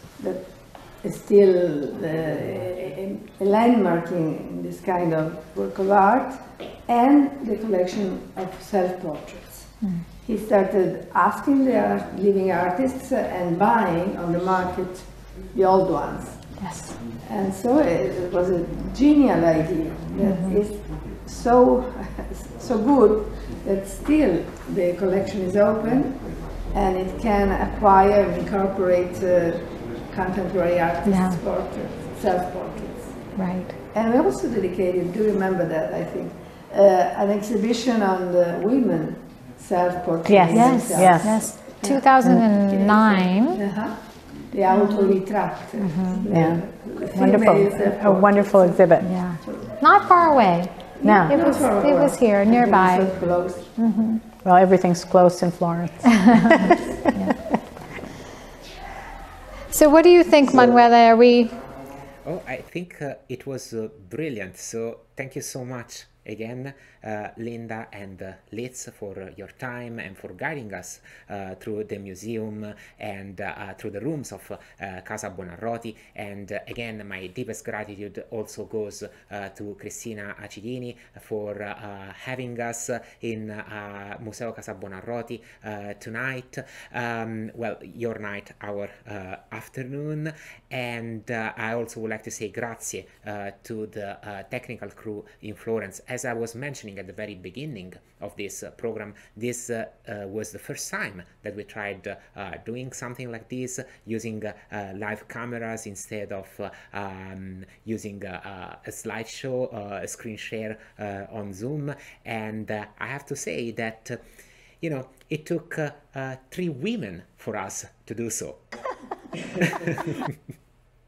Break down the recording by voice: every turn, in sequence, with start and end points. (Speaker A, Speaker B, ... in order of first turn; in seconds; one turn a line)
Speaker A: 0.2-9.7
Speaker B: 9.8-10.1
Speaker A: 10.2-16.4
Speaker B: 16.6-17.0
Speaker A: 17.2-33.2
Speaker B: 20.2-20.6
Speaker B: 31.0-31.4
Speaker B: 33.4-33.7
Speaker A: 33.9-41.4
Speaker C: 40.2-42.4
Speaker B: 40.5-43.6
Speaker A: 42.7-44.0
Speaker A: 44.5-49.6
Speaker B: 44.7-45.2
Speaker B: 45.8-46.2
Speaker C: 46.3-49.1
Speaker B: 49.0-53.1
Speaker C: 51.0-51.5
Speaker A: 51.0-53.6
Speaker B: 53.8-54.2
Speaker C: 54.4-56.8
Speaker B: 56.2-57.4
Speaker B: 59.7-61.5
Speaker D: 62.2-114.2
Speaker D: 114.8-118.8
Speaker D: 119.4-120.3